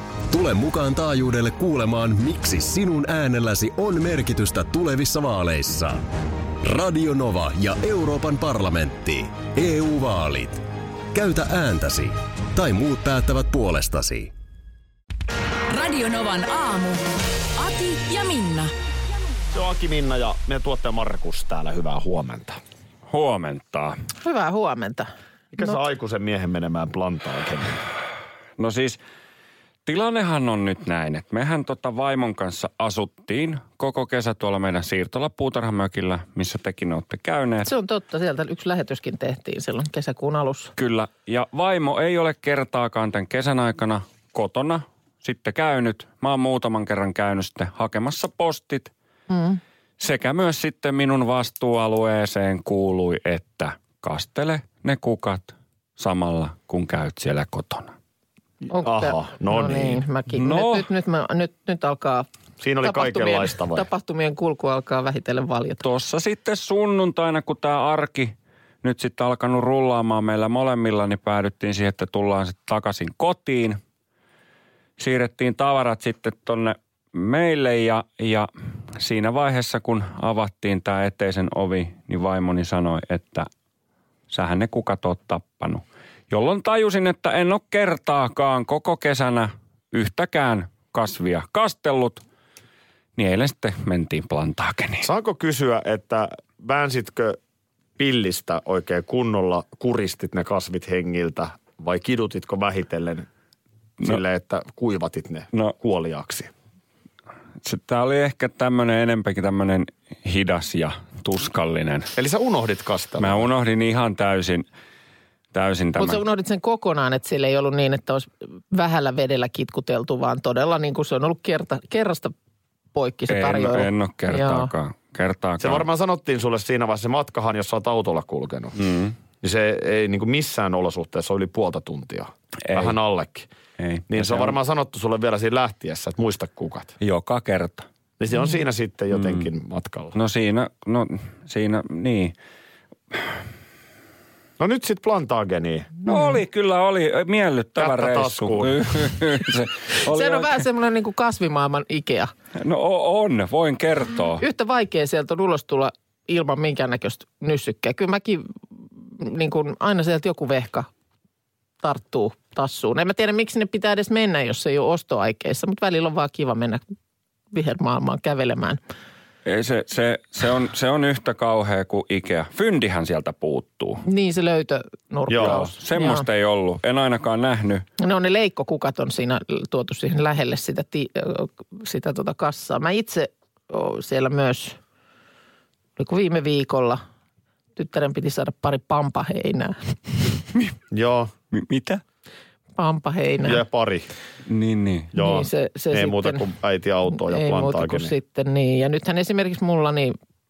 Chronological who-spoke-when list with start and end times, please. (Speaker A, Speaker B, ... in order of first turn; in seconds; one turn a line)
Speaker A: 0.3-6.0
Speaker A: 6.6-14.3
Speaker B: 15.7-17.0
Speaker B: 17.6-18.7
Speaker C: 19.5-22.6
Speaker D: 23.1-24.0
Speaker E: 24.2-25.1
Speaker C: 25.5-27.8
Speaker D: 28.6-29.0
Speaker D: 29.9-37.7
Speaker E: 37.6-40.7
Speaker D: 40.8-48.9
Speaker E: 49.3-49.6
Speaker D: 50.0-58.0
Speaker E: 58.7-62.3
Speaker C: 58.8-60.0
Speaker D: 60.3-60.9
Speaker C: 62.6-63.9
Speaker E: 62.8-65.8
Speaker D: 65.8-73.8
Speaker D: 75.0-83.5
Speaker D: 84.3-92.2
Speaker D: 93.2-95.1
Speaker C: 95.0-97.4
Speaker C: 98.0-103.3
Speaker C: 104.0-106.5
Speaker D: 107.6-112.1
Speaker C: 112.2-113.5
Speaker D: 113.2-114.7
Speaker D: 115.5-116.2
Speaker E: 116.0-122.3
Speaker E: 122.9-124.7
Speaker D: 123.3-125.8
Speaker C: 125.6-128.8
Speaker D: 128.8-129.2
Speaker C: 129.4-133.5
Speaker D: 132.7-133.0
Speaker D: 133.8-134.5
Speaker C: 134.1-136.9
Speaker D: 137.0-137.9
Speaker C: 138.2-140.1
Speaker D: 139.1-139.4
Speaker D: 140.1-142.3
Speaker C: 144.6-146.1
Speaker D: 146.1-150.6
Speaker C: 147.8-149.1
Speaker E: 150.0-152.3
Speaker D: 152.6-154.4
Speaker E: 154.4-160.9
Speaker E: 161.8-166.8
Speaker E: 167.5-168.8
Speaker D: 169.4-174.0
Speaker E: 174.1-176.2
Speaker C: 175.3-175.6
Speaker D: 175.3-177.8
Speaker E: 178.0-184.8
Speaker E: 186.0-187.0
Speaker E: 187.8-190.3
Speaker C: 190.9-191.3
Speaker D: 191.5-192.0
Speaker E: 192.8-193.6
Speaker C: 193.4-194.1
Speaker D: 194.5-195.1
Speaker C: 195.1-198.1
Speaker E: 195.1-196.5
Speaker E: 197.1-200.2